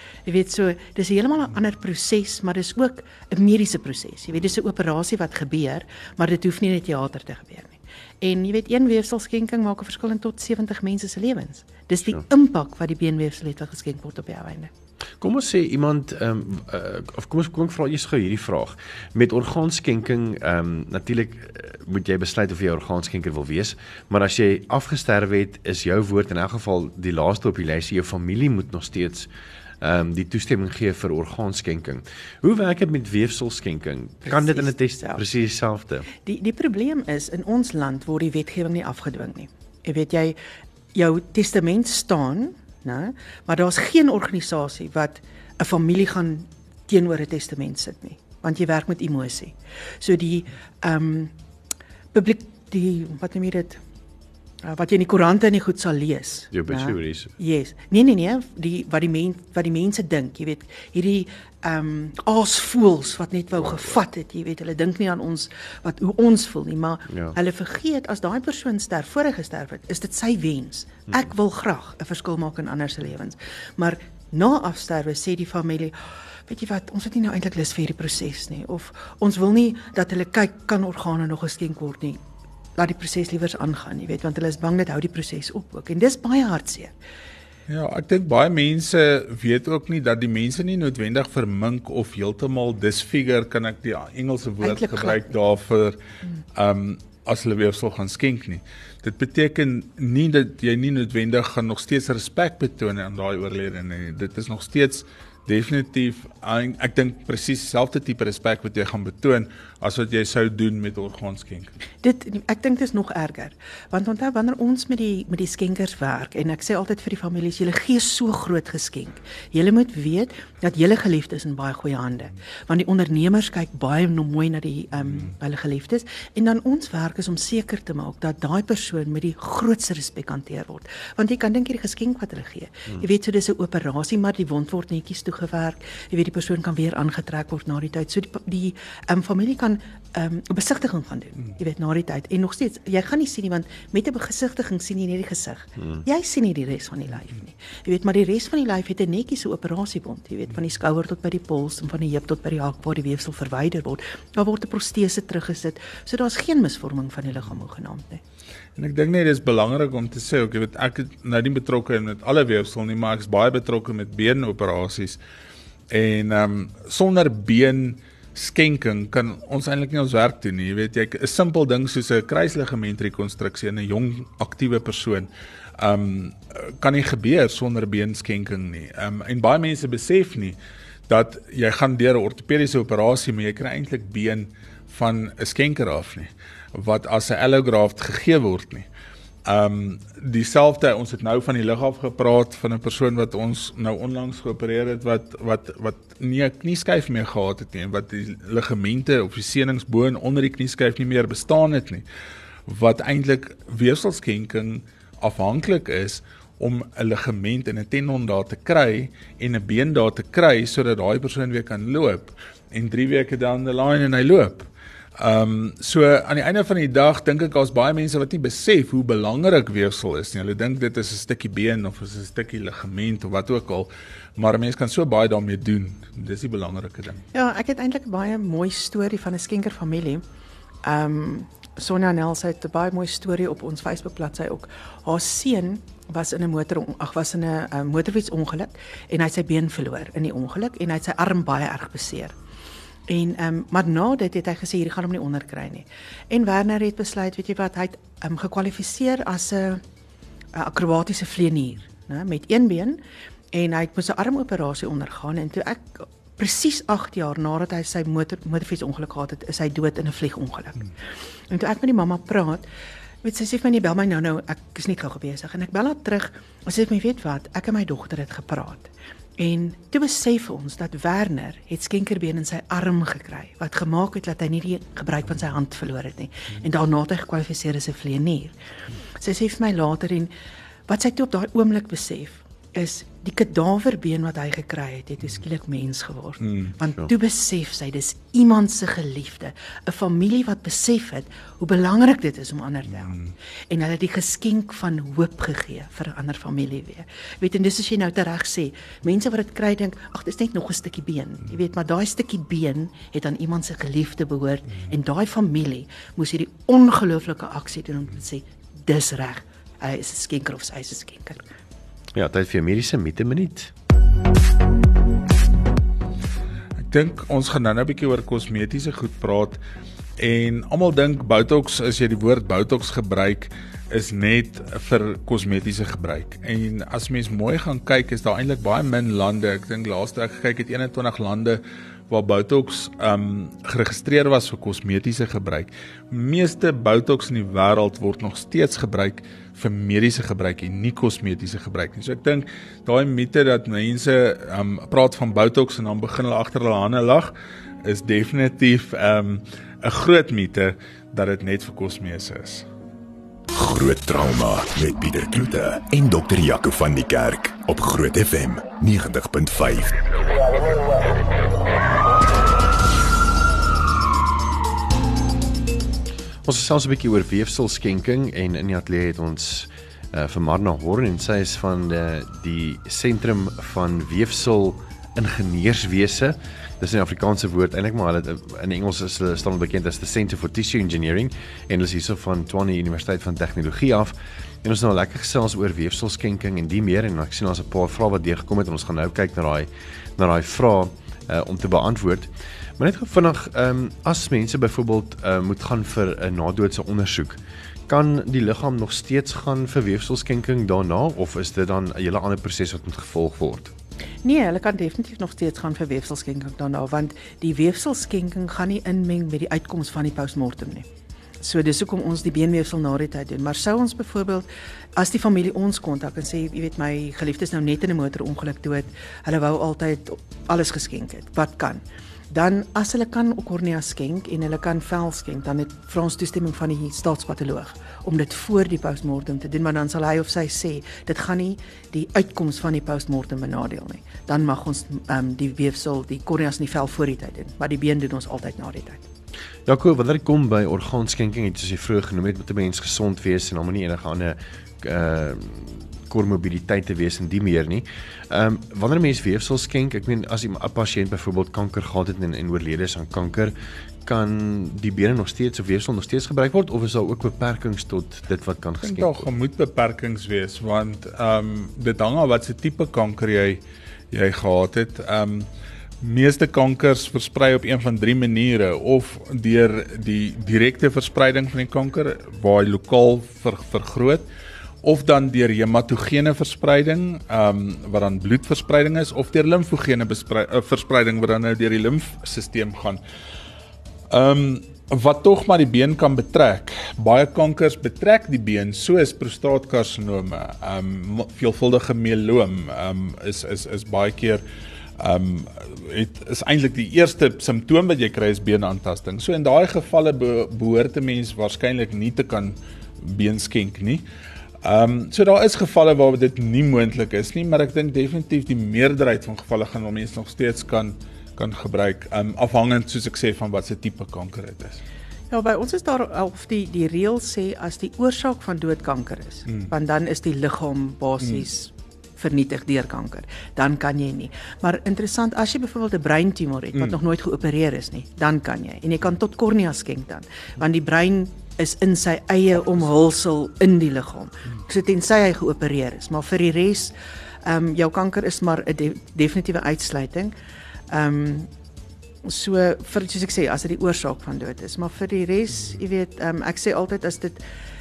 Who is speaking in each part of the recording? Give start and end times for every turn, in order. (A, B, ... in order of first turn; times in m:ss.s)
0:00.3-0:14.7 A
0:15.2-0:29.3 B
0:29.8-0:36.1 B
0:34.3-0:35.2 A
0:36.2-0:40.4 A
0:40.9-0:51.3 A
0:52.1-0:53.8 A
0:54.6-1:16.0 A
0:56.5-0:57.3 B
1:07.1-1:07.4 B
1:16.5-1:22.2 A
1:22.8-1:26.9 A
1:27.7-1:36.0 C
1:34.6-1:35.2 A
1:36.6-1:51.7 C
1:52.0-2:38.2 A
2:38.8-2:45.2 C
2:45.9-3:00.6 C
3:01.1-3:08.9 C
3:09.4-3:22.0 C
3:22.7-3:47.2 C
3:47.3-3:50.2 A
3:50.8-4:02.4 A
4:03.1-4:09.8 A
4:10.6-4:13.0 A
4:13.5-4:20.9 A
4:21.5-4:22.6 A
4:23.2-4:38.5 A
4:39.2-4:40.3 A
4:40.9-4:53.2 A
4:46.4-4:46.7 C
4:53.7-5:11.4 A
5:12.1-5:13.7 B
5:16.9-5:19.6 C
5:20.2-5:47.3 C
5:47.8-5:52.7 C
5:53.5-6:00.0 D
6:06.4-6:43.7 B
6:44.2-6:50.9 A
6:51.4-7:19.0 A
7:19.7-7:33.5 B
7:34.0-7:39.3 B
7:38.8-7:43.6 C
7:44.1-7:45.5 C
7:46.0-7:54.2 C
7:54.8-8:03.0 C
8:04.1-8:14.4 C
8:15.0-8:24.0 C
8:24.6-8:34.8 C
8:35.3-9:00.3 A
9:00.9-9:01.5 A
9:02.2-9:07.4 A